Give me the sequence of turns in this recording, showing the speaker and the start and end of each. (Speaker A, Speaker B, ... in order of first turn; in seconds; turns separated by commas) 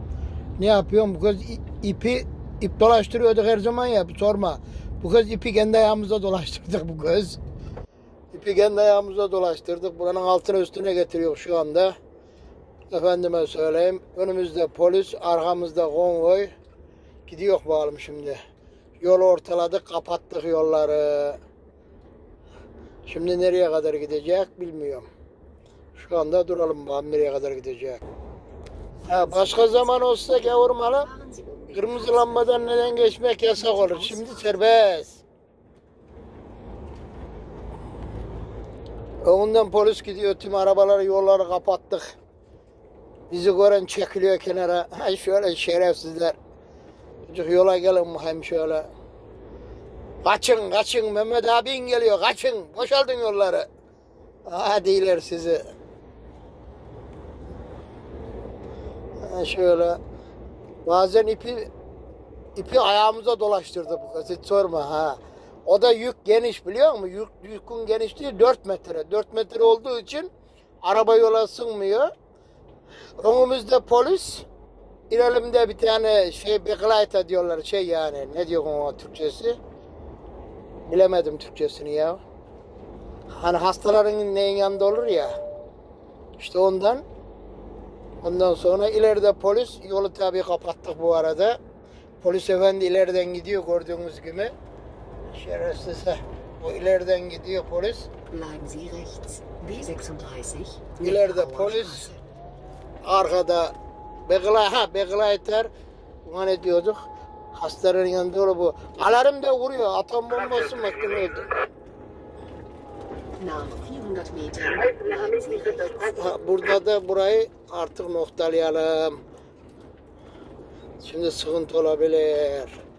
Speaker A: 0.6-7.4, Speaker A: 8.3-11.9, Speaker A: 12.9-16.5, Speaker A: 17.3-18.4, Speaker A: 19.0-21.4, Speaker A: 23.1-25.1, Speaker A: 25.9-28.0, Speaker B: 29.0-34.8, Speaker A: 29.1-31.1, Speaker A: 31.7-35.2, Speaker A: 39.2-42.1, Speaker A: 43.3-46.4, Speaker A: 47.3-48.9, Speaker A: 50.2-53.7, Speaker A: 54.5-55.6, Speaker A: 59.2-60.0, Speaker A: 60.8-61.7, Speaker A: 62.5-70.3, Speaker A: 70.8-72.1, Speaker A: 73.2-74.4, Speaker A: 75.1-79.6, Speaker A: 80.8-82.2, Speaker A: 83.3-85.3, Speaker A: 86.4-87.0, Speaker A: 88.2-91.6, Speaker A: 92.2-94.5, Speaker A: 95.3-98.1, Speaker B: 98.3-102.2, Speaker A: 101.0-102.1, Speaker A: 103.0-103.7, Speaker A: 104.3-105.7, Speaker A: 106.2-107.0, Speaker A: 107.5-111.5, Speaker B: 113.4-116.2, Speaker A: 116.1-119.2, Speaker A: 121.0-122.8